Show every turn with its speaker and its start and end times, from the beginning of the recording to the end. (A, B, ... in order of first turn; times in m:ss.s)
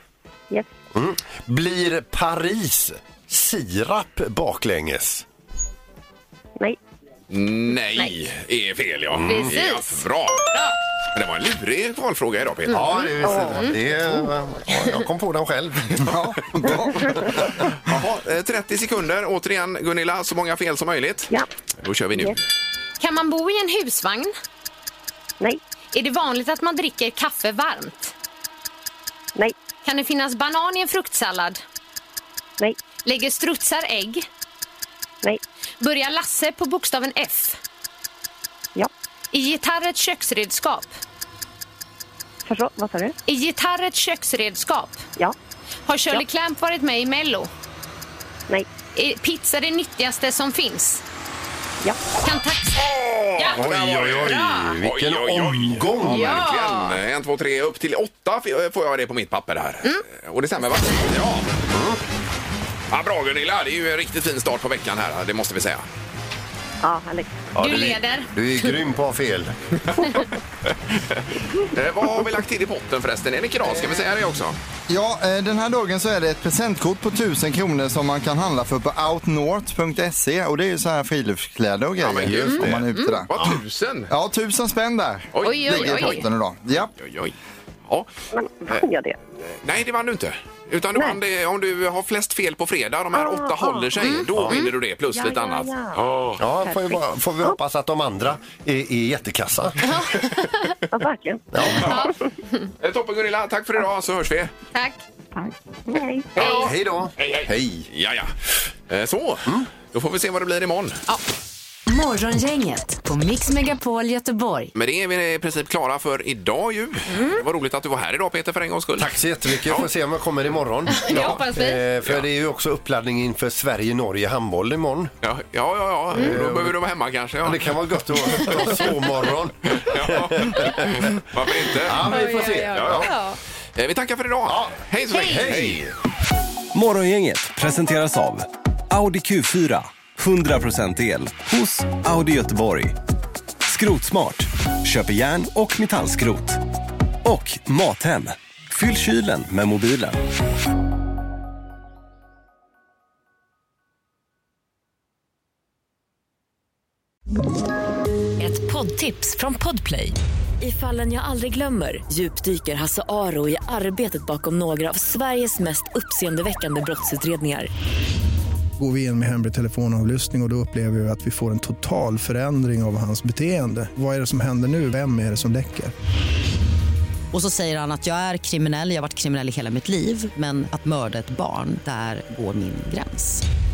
0:00.9-0:05.2 A
0:07.3-0:10.4 B
0:09.1-0:09.5 A
0:09.2-0:10.7 C
0:11.1-0:13.5 B
0:12.7-0:16.0 A
0:13.2-0:13.6 D
0:16.0-0:17.6 E
0:17.8-0:22.4 B
0:23.0-0:24.3 C
0:25.9-0:28.1 C
0:29.8-0:31.6 C
0:33.0-0:34.3 C
0:35.8-0:37.6 C
0:39.3-0:41.0 C
0:42.4-0:43.2 D
0:43.2-0:45.0 C
0:45.9-0:47.5 C
0:48.9-0:51.0 C
0:52.2-0:52.8 C
0:52.9-1:01.5 B
0:53.4-0:54.8 C
0:53.5-0:56.4 A
0:56.0-0:57.0 C
1:01.7-1:02.0 A
1:02.9-1:05.8 B
1:06.8-1:07.5 D
1:07.5-1:09.5 A
1:07.6-1:08.7 C
1:09.8-1:10.3 B
1:10.9-1:14.6 B
1:14.9-1:23.3 E
1:22.0-1:24.1 B
1:22.2-1:22.8 A
1:22.4-1:23.2 C
1:23.3-1:23.6 A
1:24.1-1:26.9 E
1:25.3-1:26.2 B
1:25.4-1:26.2 C
1:27.0-1:27.3 B
1:28.3-1:29.2 D
1:29.4-1:36.4 B
1:33.1-1:34.0 D
1:34.0-1:34.7 C
1:34.3-1:34.6 A
1:34.5-1:36.0 D
1:36.4-1:39.8 A
1:36.6-1:37.6 D
1:39.8-1:40.7 C
1:40.9-1:41.7 D
1:41.5-1:42.0 A
1:41.7-1:42.1 C
1:42.8-1:44.5 B
1:44.7-1:45.0 C
1:45.4-1:46.3 D
1:46.4-1:48.3 B
1:46.4-1:46.7 C
1:46.4-1:47.9 A
1:48.9-1:51.0 B
1:51.9-1:54.7 F
1:54.7-1:59.1 B
1:57.1-1:57.4 C
1:59.0-2:05.1 A
1:59.6-1:59.9 B
2:00.9-2:01.8 C
2:01.1-2:01.4 B
2:05.2-2:07.8 B
2:06.1-2:06.8 A
2:07.4-2:11.1 A
2:08.3-2:08.8 B
2:09.8-2:12.1 B
2:11.7-2:13.1 A
2:12.1-2:13.4 C
2:12.7-2:13.1 B
2:13.8-2:15.9 B
2:14.5-2:15.9 A
2:16.7-2:23.0 G
2:23.6-2:26.6 G
2:27.2-2:30.2 G
2:38.4-2:47.7 H
2:48.8-2:55.9 I
2:57.3-3:03.4 J